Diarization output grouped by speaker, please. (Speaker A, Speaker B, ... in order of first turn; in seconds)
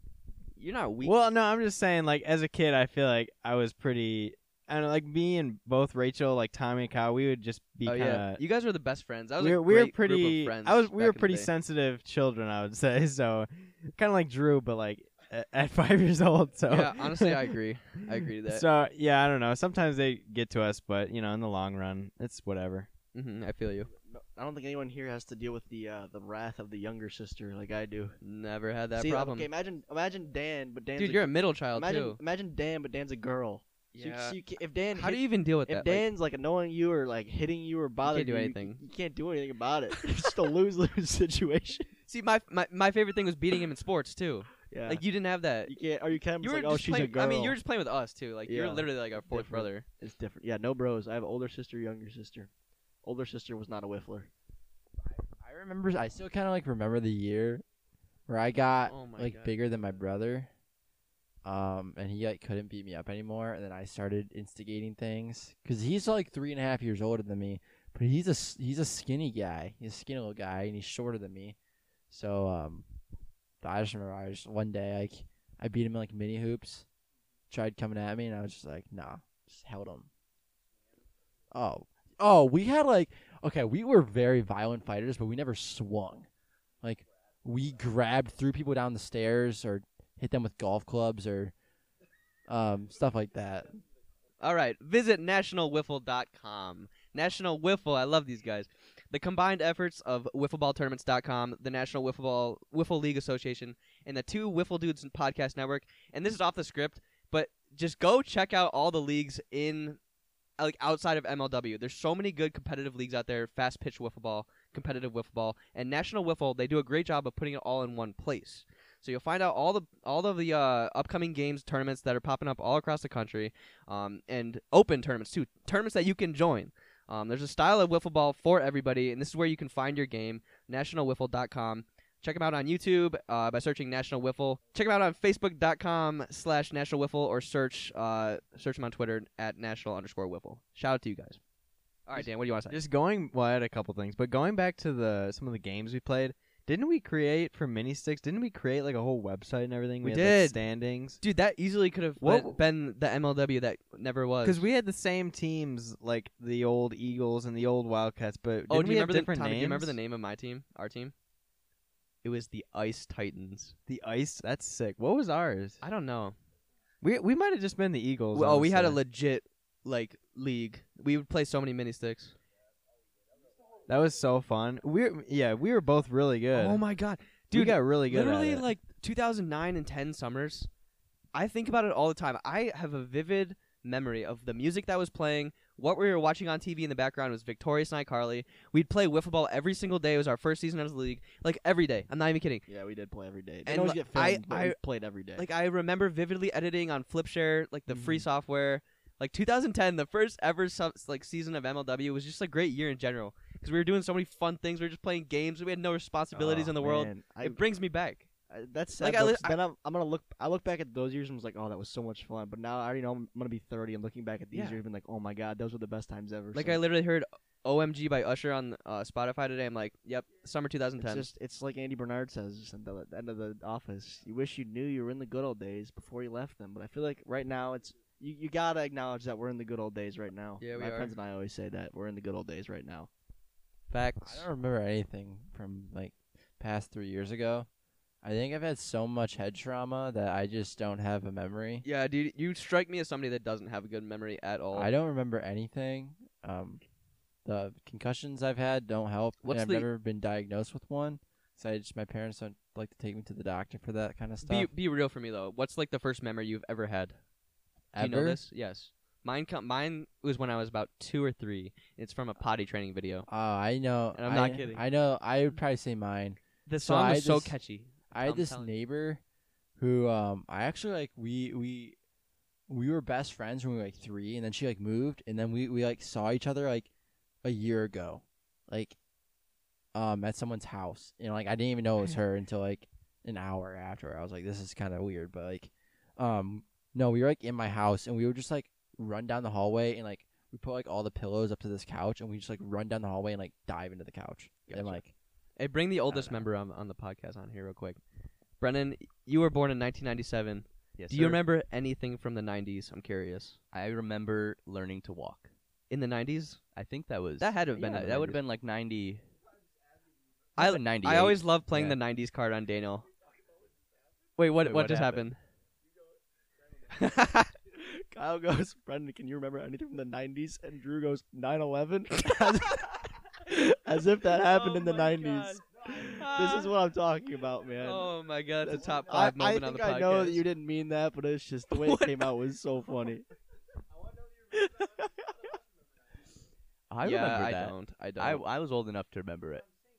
Speaker A: 0.6-1.2, 7.8-11.5, 16.7-18.6, 23.1-23.9, 28.2-29.5, 31.0-32.2, 33.9-34.4, 34.9-36.1, 38.0-38.8, 42.1-45.7, 46.4-49.9, 58.9-59.5, 94.4-110.0, 110.6-141.4, 142.1-142.8, 150.0-150.6, 151.2-154.7, 158.7-161.1, 162.2-163.8, 165.8-166.4, 168.3-172.3, 176.5-180.7, 181.3-192.7, 193.7-194.8, 195.4-208.3, 209.0-209.6, 214.5-214.8, 216.5-221.3, 230.6-231.2, 233.9-234.5, 241.8-244.9, 249.4-249.9, 254.4-257.2, 258.0-263.3, 264.2-264.8, 266.7-268.7, 295.6-298.0, 298.6-303.6, 305.9-306.6, 307.4-308.4, 310.6-313.1, 314.4-315.4, 316.9-317.5, 324.3-326.7, 327.8-330.4, 331.7-332.3, 337.0-338.4
Speaker B: 1.0-8.4, 9.4-17.5, 18.5-22.9, 142.2-151.2, 152.2-152.6, 154.4-160.0, 163.9-165.8, 167.0-169.0, 173.9-176.8, 177.5-178.7
Speaker C: 24.1-28.2, 29.0-41.9, 44.7-45.0, 45.7-47.6, 48.5-52.5, 53.0-54.3, 192.7-195.5, 197.9-198.2, 206.3-207.6, 208.5-216.8, 221.0-233.1, 317.7-328.1, 328.6-333.3
Speaker D: 55.4-57.6, 58.3-60.5, 61.4-71.6, 72.1-72.9, 73.6-76.9, 77.5-80.1, 81.5-86.3, 86.8-91.5, 92.5-93.8, 234.2-237.7, 238.2-241.8, 244.7-246.8, 247.4-254.7, 257.9-258.4, 263.3-267.6, 268.1-269.2, 269.8-272.0, 272.7-276.9, 277.4-279.0, 279.9-295.1, 296.1-296.4
Speaker E: 294.7-295.0, 301.0-301.4, 303.7-305.5, 306.8-309.2, 310.6-312.0, 314.6-315.3, 336.9-339.6